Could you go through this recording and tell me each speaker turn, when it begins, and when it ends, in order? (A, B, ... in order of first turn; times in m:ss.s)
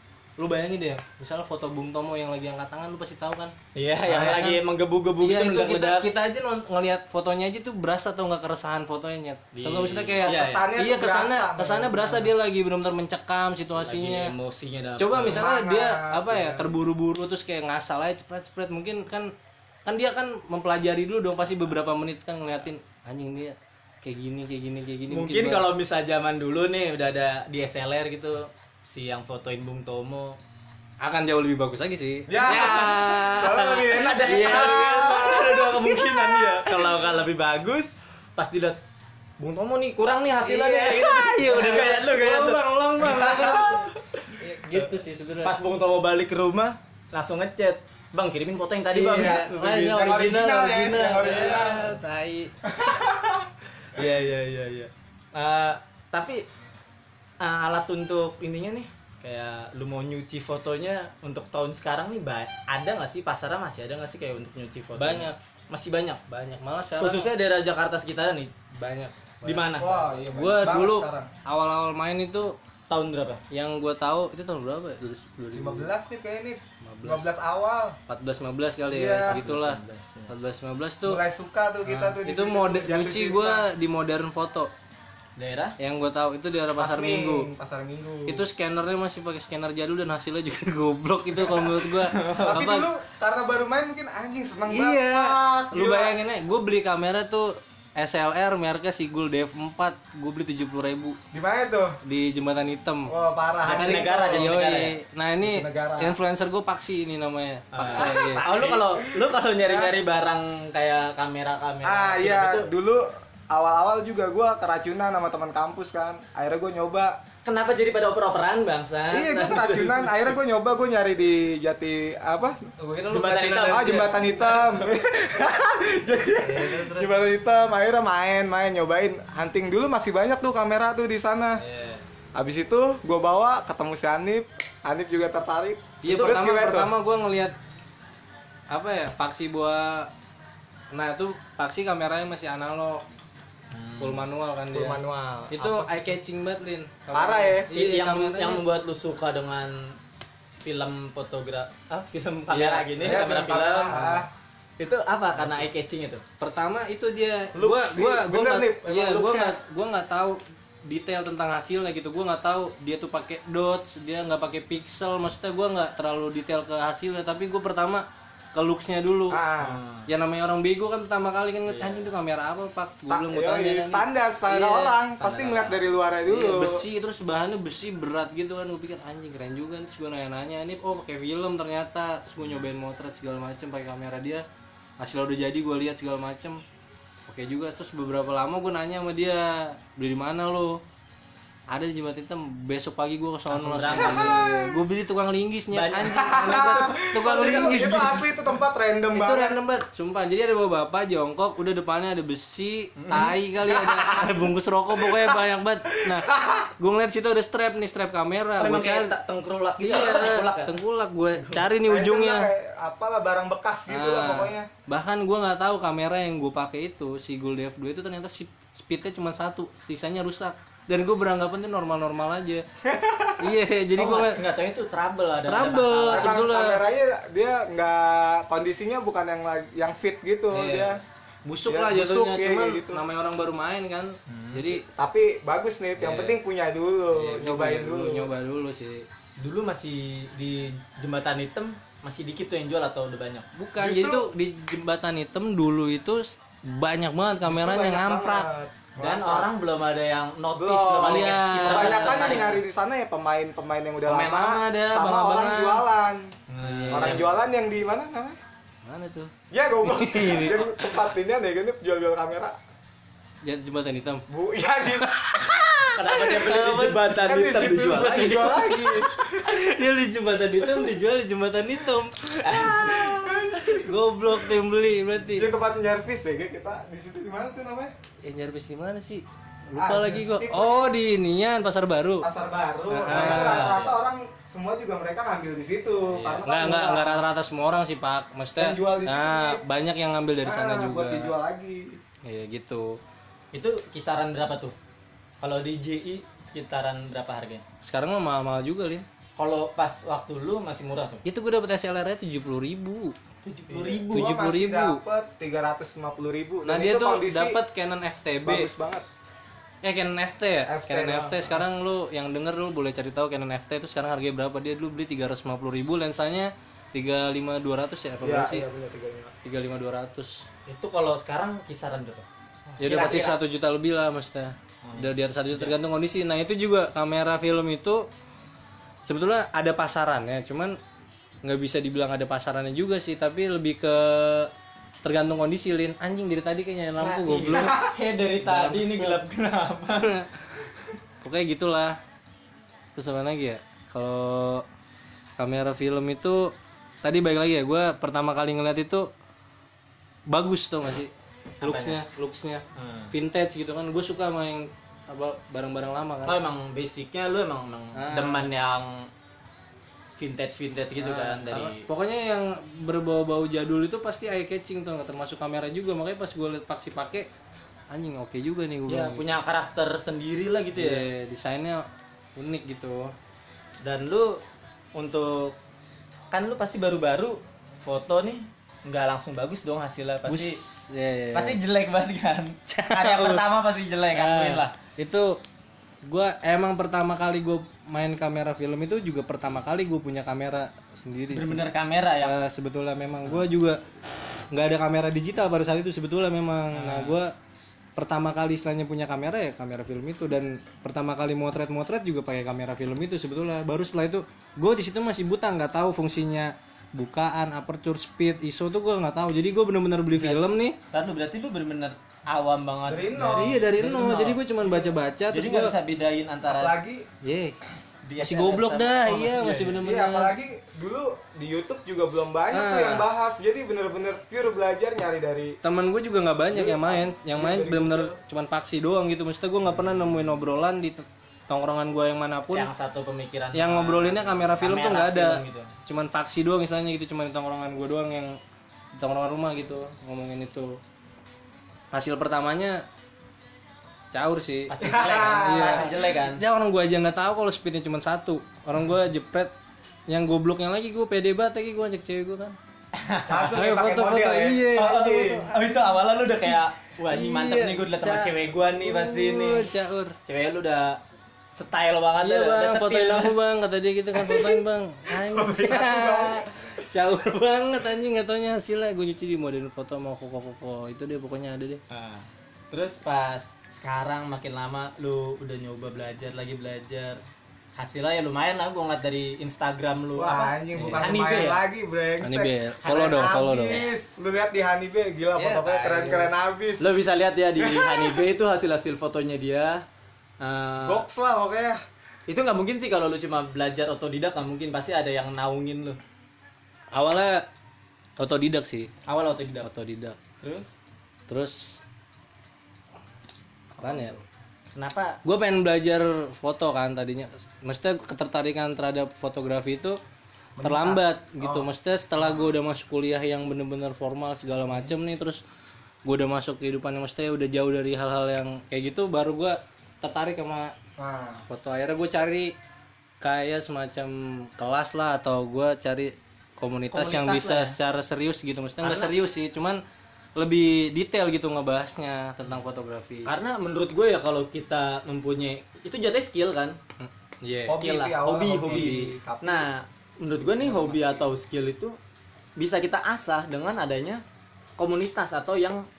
0:00.4-0:03.5 A
0:03.8-0:06.1 B
0:04.0-0:04.6 A
0:05.2-0:14.3 A
0:09.5-0:10.6 B
0:10.2-0:12.3 C
0:13.8-0:15.4 B
0:15.0-0:19.3 A
0:15.2-0:16.9 C
0:19.8-0:25.6 A
0:25.1-0:30.4 B
0:31.0-0:37.0 A
0:32.3-0:35.8 C
0:32.4-0:38.8 B
0:39.4-0:42.6 B
0:40.4-0:45.6 A
0:43.0-0:43.8 C
0:44.2-0:49.5 B
0:48.9-0:51.9 C
0:49.1-0:52.5 A
0:51.2-0:51.8 B
0:52.6-0:53.5 C
0:53.8-0:56.4 B
0:57.4-1:06.2 B
1:05.0-1:05.4 A
1:06.3-1:07.3 A
1:07.0-1:08.5 B
1:08.8-1:12.6 A
1:09.4-1:09.9 B
1:09.8-1:11.3 C
1:12.9-1:13.4 B
1:13.5-1:15.9 A
1:15.5-1:18.0 C
1:16.8-1:17.3 A
1:18.1-1:21.2 A
1:18.9-1:19.4 C
1:19.2-1:20.3 B
1:21.0-1:23.6 C
1:21.8-1:24.7 A
1:25.4-1:25.8 B
1:25.8-1:27.5 A
1:26.8-1:28.5 C
1:28.3-1:32.9 A
1:32.0-1:32.6 B
1:32.4-1:36.2 C
1:34.7-1:41.2 A
1:41.3-1:42.0 C
1:42.0-1:43.1 A
1:43.1-1:44.5 C
1:43.6-1:45.0 B
1:43.7-1:48.5 A
1:45.4-1:46.2 C
1:47.7-1:52.7 B
1:47.8-1:49.9 C
1:51.8-1:57.2 C
1:57.4-2:00.3 B
1:59.1-2:02.7 C
2:02.8-2:04.6 A
2:03.1-2:04.6 B
2:03.7-2:11.6 C
2:06.4-2:07.1 B
2:11.6-2:12.0 B
2:12.4-2:16.9 C
2:16.0-2:17.5 A
2:18.7-2:20.1 A
2:20.9-2:23.0 A
2:23.7-2:24.2 B
2:24.0-2:28.6 A
2:24.7-2:26.1 C
2:27.1-2:27.7 C
2:27.7-2:30.0 B
2:30.6-2:33.9 B
2:32.5-2:33.2 A
2:33.0-2:34.3 C
2:33.9-2:34.2 A
2:34.8-2:36.2 B
2:36.4-2:49.4 A
2:37.5-2:39.6 C
2:49.3-2:49.8 C
2:49.6-2:50.1 B
2:50.1-2:54.0 A
2:51.6-2:52.1 B
2:53.1-2:56.9 C
2:54.5-2:55.8 B
2:56.2-3:04.4 A
3:05.0-3:06.6 A
3:07.3-3:10.8 A
3:11.7-3:18.3 A
3:13.5-3:14.4 B
3:13.9-3:14.8 C
3:15.7-3:17.8 B
3:16.1-3:19.6 C
3:19.1-3:29.1 A
3:23.0-3:23.3 B
3:23.6-3:24.4 C
3:24.9-3:25.4 C
3:26.0-3:26.7 C
3:28.6-3:30.8 B
3:29.8-3:32.5 A
3:31.8-3:34.7 C
3:33.9-3:42.6 A
3:42.8-3:43.5 C
3:43.4-3:44.4 A
3:44.0-3:46.4 B
3:45.4-3:46.8 A
3:46.1-3:51.0 C
3:50.5-3:54.8 A
3:51.6-3:53.0 C
3:54.3-3:54.8 B
3:55.0-3:58.3 C
3:56.0-3:56.4 A
3:57.1-3:59.1 A
3:59.4-4:03.5 B
4:03.5-4:08.5 A
4:03.8-4:04.3 C
4:07.5-4:09.5 C
4:09.0-4:12.6 B
4:10.6-4:16.3 C
4:11.0-4:12.5 A
4:14.1-4:15.8 A
4:16.5-4:17.2 B
4:16.6-4:17.3 A
4:16.9-4:18.4 C
4:18.8-4:19.3 A
4:19.5-4:22.5 C
4:19.8-4:20.8 A
4:23.4-4:24.2 A
4:24.3-4:25.1 C
4:24.9-4:27.1 A
4:26.0-4:28.6 B
4:27.1-4:29.7 C
4:27.7-4:35.5 A
4:32.4-4:33.3 B
4:32.8-4:33.9 C
4:35.3-4:37.9 C
4:38.2-4:42.3 A
4:39.8-4:40.9 C
4:42.2-4:47.2 C
4:42.9-4:43.8 A
4:43.1-4:44.0 B
4:46.1-4:51.3 A
4:48.6-4:49.6 C
4:50.4-4:52.0 C
4:52.2-4:53.0 A
4:53.5-4:54.7 B
4:55.4-4:57.6 B
4:57.8-4:59.0 A
4:59.4-5:01.2 B
5:01.2-5:03.2 A
5:03.4-5:04.3 B
5:03.7-5:07.6 C
5:04.1-5:05.0 A
5:06.6-5:08.7 A
5:08.4-5:09.0 C
5:09.8-5:18.6 A
5:10.6-5:11.6 C
5:18.2-5:19.3 C
5:19.4-5:20.4 A
5:20.7-5:22.2 B
5:22.7-5:23.2 C
5:22.8-5:28.0 A
5:22.8-5:23.4 B
5:24.8-5:25.7 B
5:29.0-5:30.8 A
5:31.4-5:34.5 A
5:35.0-5:37.8 A
5:37.0-5:40.1 B
5:37.6-5:37.9 C
5:38.4-5:39.2 A
5:40.0-5:40.4 A
5:41.2-5:42.0 A
5:43.0-5:44.6 A
5:45.4-5:49.1 A
5:50.3-5:51.1 A
5:51.6-5:52.0 B
5:51.6-5:56.4 A
5:52.8-5:53.1 B
5:56.2-5:59.1 B
5:58.0-5:58.5 A
6:00.2-6:01.8 B
6:01.0-6:07.3 A
6:07.9-6:09.2 A
6:08.9-6:11.0 B
6:10.8-6:11.8 A
6:12.4-6:13.1 A
6:13.8-6:14.4 B
6:15.0-6:15.5 B
6:16.3-6:20.6 B
6:20.3-6:21.6 A
6:21.3-6:24.7 B
6:22.7-6:23.5 A
6:24.1-6:25.4 A
6:26.0-6:31.6 A
6:31.3-6:32.4 B
6:32.2-6:33.8 A
6:34.5-6:37.3 A
6:36.7-6:37.2 B
6:38.0-6:50.8 A
6:50.2-6:50.4 B
6:50.9-6:54.4 B
6:52.9-6:53.6 C
6:53.2-6:55.7 A
6:55.3-6:56.8 B
6:56.5-6:57.1 C
6:57.2-6:57.6 A
6:58.0-6:59.8 B
6:58.2-7:00.3 A
6:59.8-7:05.6 C
7:02.5-7:03.0 A
7:05.6-7:12.7 A
7:06.5-7:08.1 C
7:09.8-7:10.2 B
7:12.5-7:15.7 B
7:13.5-7:18.4 A
7:18.9-7:20.8 A
7:21.9-7:22.8 A
7:24.1-7:29.5 A
7:24.7-7:26.4 B
7:24.8-7:25.9 C
7:30.1-7:32.6 A
7:32.9-7:33.6 B
7:33.3-7:35.5 C
7:33.5-7:35.4 A
7:34.8-7:39.7 B
7:37.1-7:40.2 A
7:40.2-7:41.0 B
7:41.6-7:43.3 B
7:42.2-7:51.8 A
7:45.2-7:46.4 C
7:51.9-7:57.2 B
7:57.8-8:01.6 B
8:00.2-8:06.8 C
8:00.8-8:01.1 A
8:02.2-8:03.8 A
8:02.8-8:03.3 B
8:05.4-8:06.3 A
8:06.8-8:09.8 B
8:07.6-8:08.2 C
8:10.4-8:11.0 B
8:10.8-8:11.8 C
8:12.3-8:16.0 B
8:16.9-8:17.5 A
8:18.2-8:18.9 A
8:19.1-8:19.7 B
8:19.6-8:20.2 A
8:20.4-8:20.7 B
8:21.3-8:21.8 A
8:23.8-8:24.2 C
8:23.8-8:24.2 A
8:24.8-8:25.2 B
8:25.2-8:30.0 A
8:30.6-8:31.6 C
8:30.6-8:35.4 A
8:36.0-8:40.7 A
8:41.0-8:41.4 C
8:41.5-8:42.5 A
8:43.2-8:49.8 A
8:46.9-8:47.8 B
8:48.8-8:49.1 B
8:50.4-8:53.3 A
8:53.2-8:56.8 B
8:57.0-8:57.8 A
8:57.7-8:59.7 C
8:57.7-9:02.0 B
8:58.7-8:59.2 A
9:00.6-9:01.2 C
9:02.6-9:04.2 B
9:04.8-9:05.8 B